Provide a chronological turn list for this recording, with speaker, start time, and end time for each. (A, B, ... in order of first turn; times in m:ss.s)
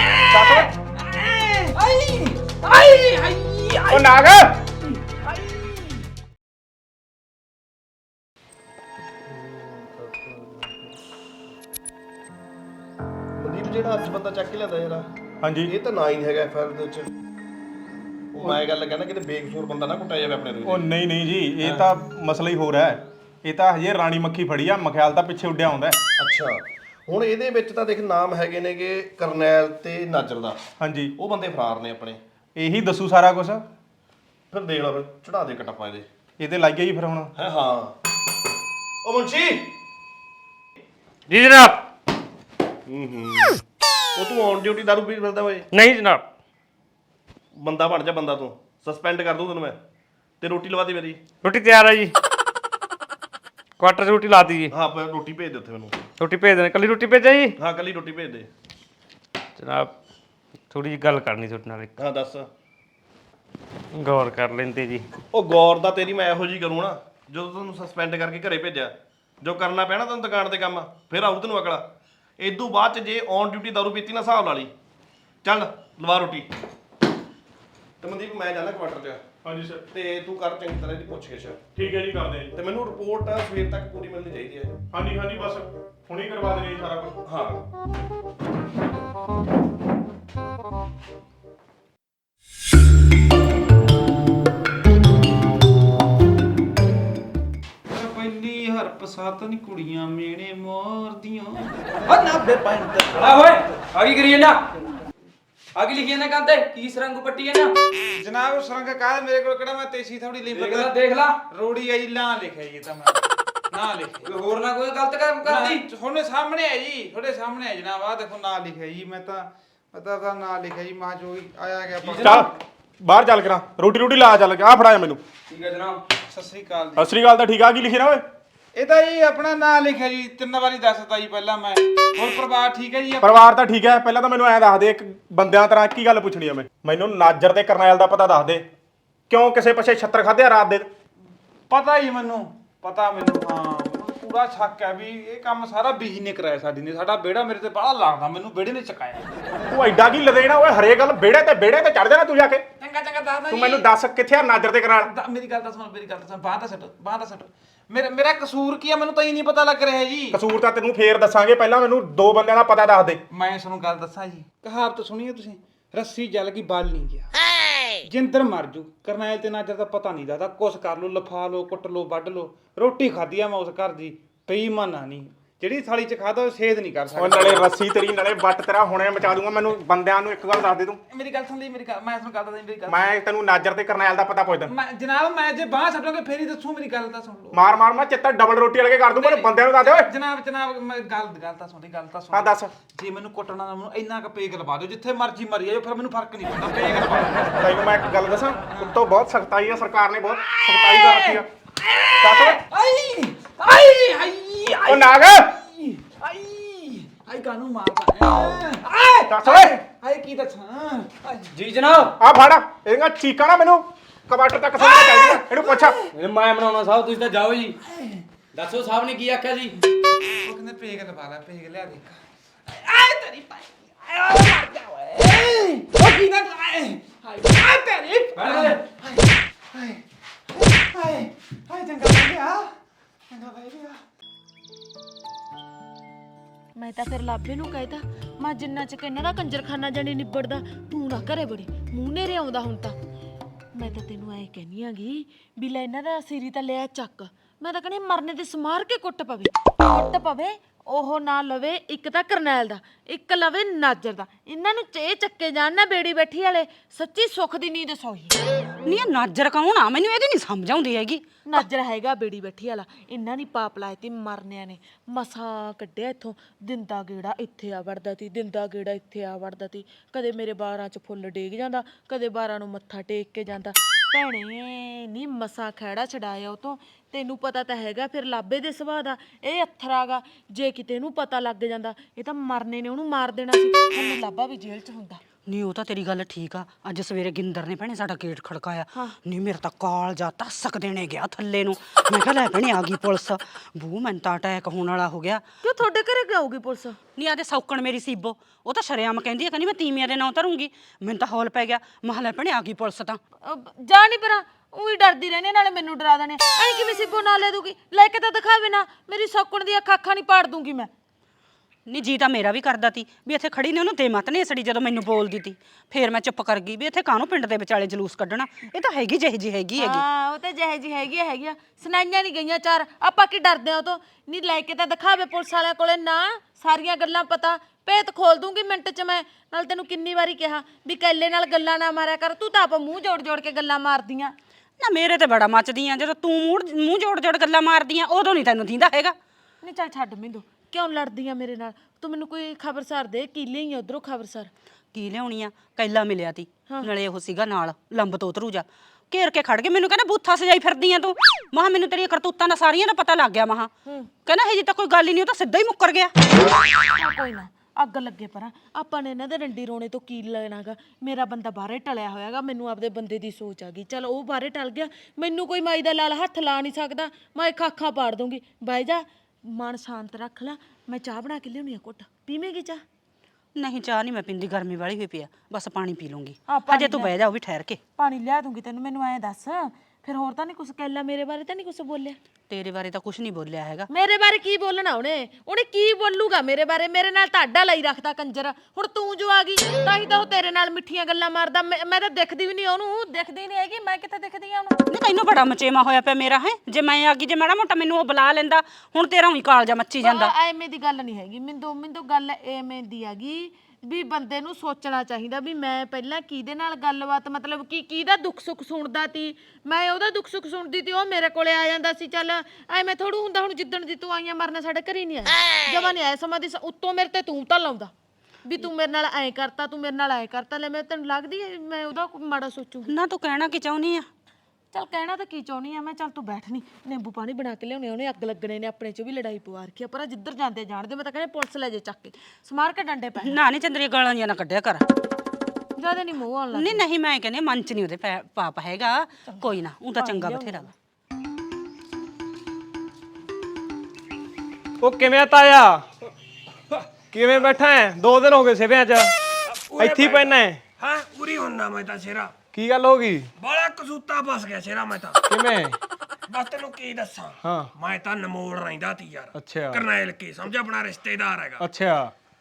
0:00.3-0:00.7 A
0:01.8-0:03.6 B
0:03.9-0:04.5 A
0:09.3-0:10.8 C
0:13.4-0:15.0 C
0:15.4-0:15.7 A
0:15.7-0:17.1 C
0:18.3-0:20.9 C
0:20.7-0:26.0 A
0:26.2-0:30.6 C
0:30.8-0:31.1 A
0:31.2-0:32.2 C
0:32.6-0:33.6 A
0:34.5-0:36.1 C
0:36.4-0:37.3 A
0:37.4-0:37.9 C
0:39.0-0:39.7 C
0:41.3-0:41.8 D
0:42.9-0:43.5 C
0:44.2-0:45.7 C
0:45.7-0:46.2 D
0:47.6-0:49.8 C
0:50.4-0:51.2 C
0:51.4-0:52.1 D
0:53.8-0:54.7 D
0:54.7-0:56.0 C
0:56.2-0:57.6 D
0:57.6-0:58.5 C
0:59.6-0:59.9 D
1:00.7-1:01.9 D
1:02.0-1:02.5 C
1:03.9-1:05.0 D
1:05.3-1:11.8 C
1:12.4-1:14.7 C
1:15.4-1:16.5 C
1:18.0-1:19.3 C
1:19.4-1:19.8 A
1:19.9-1:21.7 C
1:21.8-1:22.5 A
1:22.6-1:24.8 C
1:24.9-1:27.2 A
1:27.2-1:27.6 C
1:37.9-1:41.7 E
1:42.1-1:44.6 B
1:45.8-1:47.7 B
1:48.1-1:51.0 E
1:50.5-1:51.4 B
1:51.5-1:53.2 E
1:53.7-1:54.3 E
1:54.2-1:55.8 B
1:55.4-2:02.4 E
2:02.0-2:02.4 B
2:02.2-2:02.5 A
2:03.0-2:05.2 A
2:05.5-2:06.0 B
2:06.3-2:07.1 E
2:07.0-2:08.2 A
2:08.8-2:13.5 E
2:13.2-2:18.7 A
2:19.3-2:20.9 A
2:21.7-2:29.3 E
2:29.7-2:32.6 A
2:32.9-2:33.8 E
2:33.5-2:35.1 A
2:35.0-2:40.4 E
2:40.3-2:43.2 A
2:43.3-2:47.3 E
2:48.0-2:57.7 E
2:57.2-3:01.0 A
3:01.1-3:03.0 E
3:02.9-3:04.7 A
3:04.7-3:07.6 E
3:07.5-3:10.1 A
3:09.2-3:17.6 E
3:12.3-3:12.7 A
3:17.6-3:21.5 A
3:18.7-3:19.0 E
3:20.9-3:21.4 E
3:22.0-3:31.5 E
3:22.2-3:22.6 A
3:24.9-3:25.5 A
3:29.3-3:29.7 A
3:31.5-3:32.1 B
3:32.2-3:36.0 A
3:34.8-3:35.9 E
3:36.1-3:37.8 B
3:38.5-3:39.8 B
3:40.4-3:42.2 E
3:42.7-3:50.0 E
3:48.3-3:48.8 B
3:50.6-3:52.7 E
3:53.3-3:54.0 E
3:56.8-4:02.9 F
4:03.7-4:18.4 F
4:18.8-4:21.6 G
4:21.4-4:45.2 F
4:45.5-4:55.4 G
4:55.6-4:57.0 F
4:57.2-5:03.2 G
5:03.5-5:10.9 F
5:11.9-5:20.0 G
5:19.8-5:34.3 F
5:34.8-5:39.1 G
5:39.6-5:44.5 F
5:44.9-5:53.7 G
5:54.2-5:56.1 G
5:57.0-6:12.8 F
6:13.6-6:17.8 G
6:16.4-6:17.1 F
6:18.0-6:22.2 F
6:22.5-6:23.9 G
6:23.9-6:34.8 F
6:34.9-6:40.3 G
6:40.0-6:57.9 F
6:58.4-7:02.9 F
7:02.8-7:04.1 G
7:04.7-7:13.4 F
7:13.2-7:14.8 G
7:15.8-7:16.8 F
7:16.5-7:20.7 G
7:20.0-7:20.7 F
7:24.8-7:25.8 H
7:27.1-7:29.1 H
7:29.6-7:32.3 I
7:29.8-7:30.6 H
7:32.5-7:33.3 H
7:33.4-7:35.2 I
7:35.3-7:35.8 H
7:36.3-7:41.6 I
7:37.4-7:37.7 H
7:39.3-7:39.8 H
7:41.6-7:42.1 H